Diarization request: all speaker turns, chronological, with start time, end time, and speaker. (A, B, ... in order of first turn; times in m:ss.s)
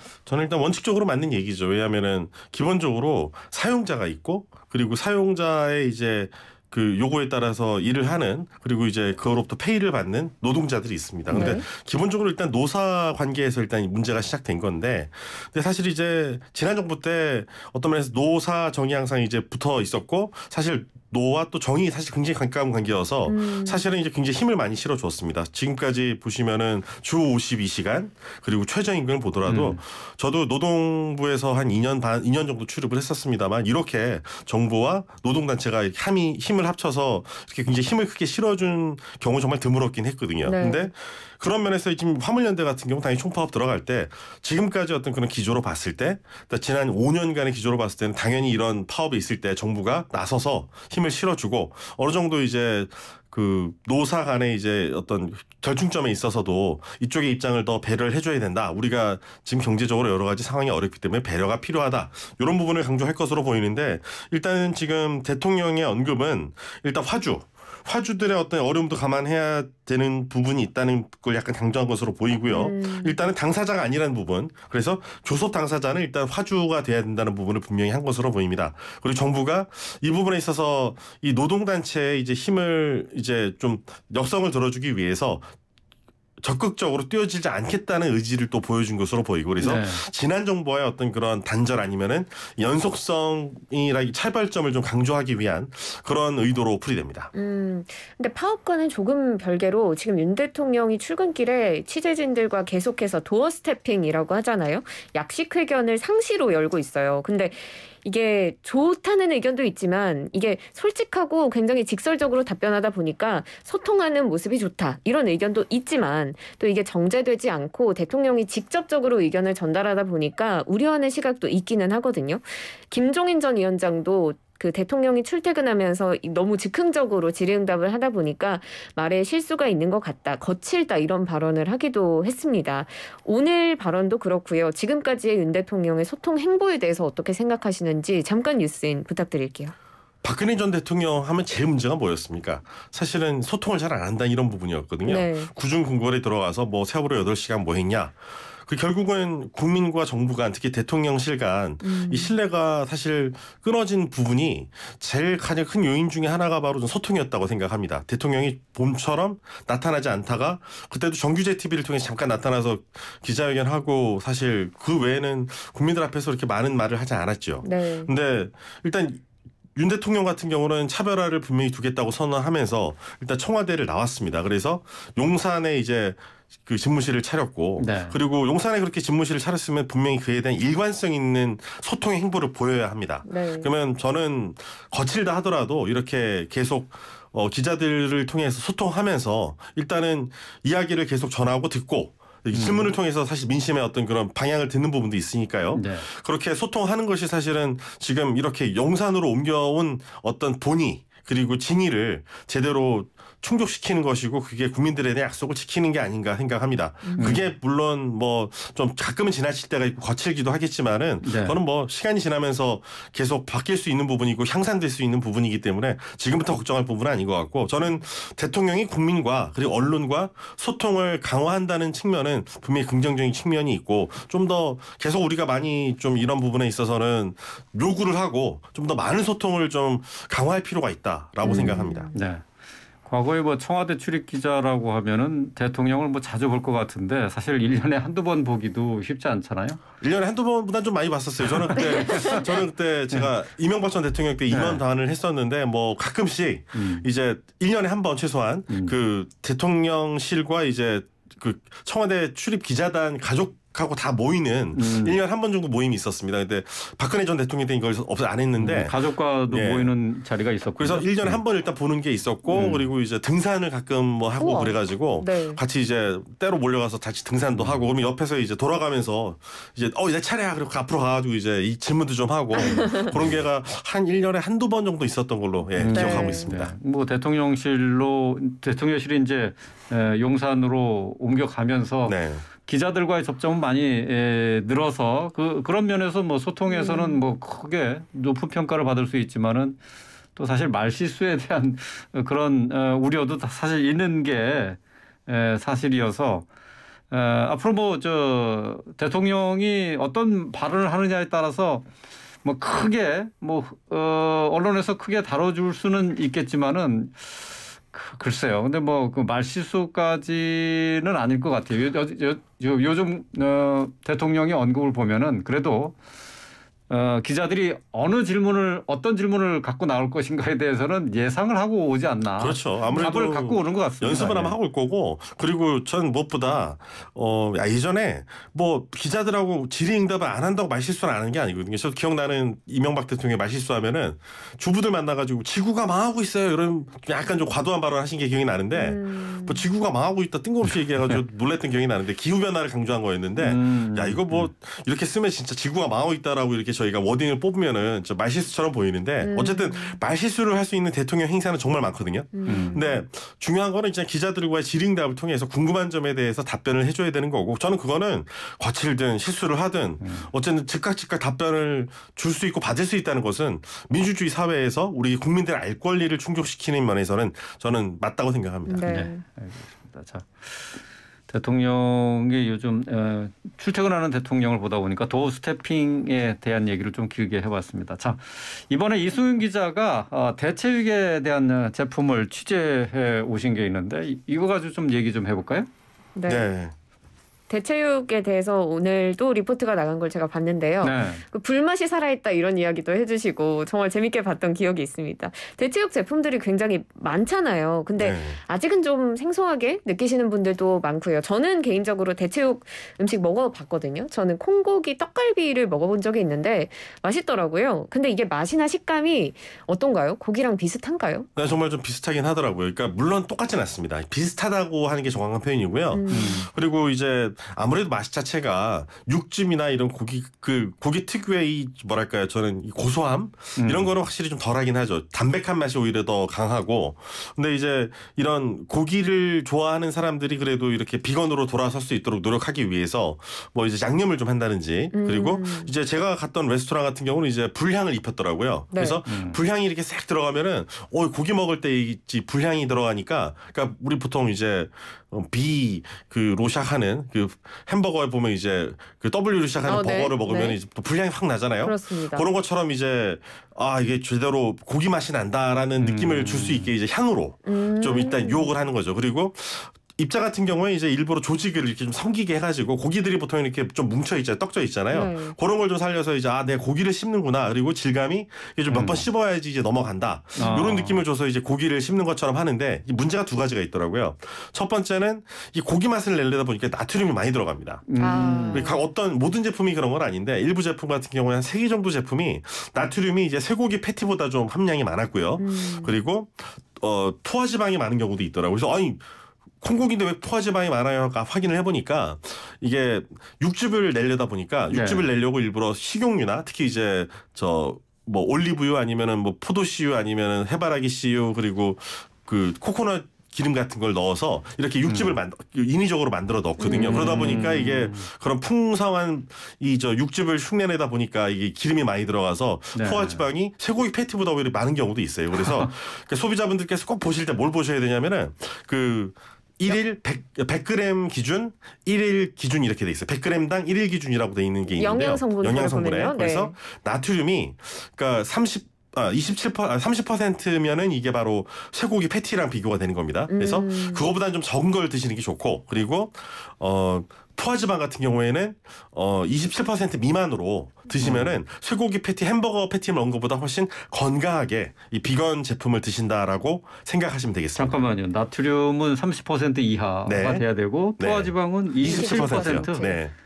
0:00.3-1:25.5 A
0:11.3-0:11.7 B
0:23.2-0:23.8 B
0:29.5-0:29.8 C
0:40.4-0:40.9 B
1:12.5-1:13.2 B
1:26.4-1:37.3 A
1:29.6-1:30.0 C
1:37.3-2:19.7 B
2:20.2-2:49.2 A
2:25.0-2:25.5 B
2:31.8-2:32.4 B
2:47.6-2:48.1 B
2:49.8-3:52.1 A
2:57.8-2:58.2 C
3:03.2-3:03.7 B
3:12.5-3:12.9 C
3:15.7-3:16.1 C
3:27.0-3:27.4 B
3:27.2-3:27.5 C
3:31.2-3:31.6 C
3:51.4-3:52.2 B
3:51.5-3:52.4 C
3:53.0-3:59.8 C
4:00.0-4:20.0 A
4:01.8-4:02.4 C
4:01.9-4:02.4 B
4:04.5-4:04.8 C
4:06.8-4:07.1 C
4:08.7-4:09.0 C
4:14.7-4:15.2 C
4:18.6-4:21.4 C
4:20.8-4:36.7 A
4:22.5-4:22.9 C
4:24.4-4:25.6 B
4:27.6-4:27.9 C
4:32.6-4:33.1 B
4:33.1-4:33.4 C
4:35.8-4:49.8 C
4:35.9-4:36.5 B
4:42.1-4:42.5 A
4:46.7-4:47.2 B
4:50.4-4:56.5 C
4:57.1-5:01.9 C
5:02.4-5:16.0 C
5:16.9-5:24.6 C
5:22.4-6:08.9 A
5:38.7-5:39.7 B
5:40.7-5:41.2 C
5:43.4-5:44.5 C
5:49.2-5:50.0 B
5:52.3-5:53.0 B
5:52.5-5:52.8 C
6:00.0-6:00.3 C
6:08.7-6:09.2 B
6:08.9-6:10.7 C
6:11.3-6:25.7 C
6:26.2-6:26.5 B
6:26.3-6:26.7 A
6:27.5-6:51.3 B
6:30.8-6:31.2 C
6:38.0-6:38.4 A
6:51.4-7:57.9 A
6:55.9-6:56.5 B
6:56.1-6:56.5 C
7:03.6-7:03.9 C
7:14.9-7:15.7 B
7:18.7-7:19.0 B
7:19.1-7:19.4 C
7:29.6-7:30.6 B
7:31.6-7:32.3 B
7:35.8-7:36.7 C
7:37.4-7:38.5 B
7:44.9-7:45.4 B
7:48.7-7:49.1 C
7:50.4-7:51.0 C
7:57.9-7:58.7 C
7:58.0-7:58.9 B
7:58.5-8:09.0 A
8:05.4-8:06.0 B
8:09.6-9:07.8 A
8:14.7-8:15.1 C
8:24.8-8:25.2 C
8:26.6-8:27.4 B
8:26.7-8:28.1 C
8:32.8-8:33.3 C
8:44.8-8:46.6 B
8:53.3-8:54.1 B
9:01.0-9:01.4 C
9:07.6-9:13.0 C
9:10.0-9:10.5 A
9:11.0-9:13.1 A
9:11.8-9:13.0 B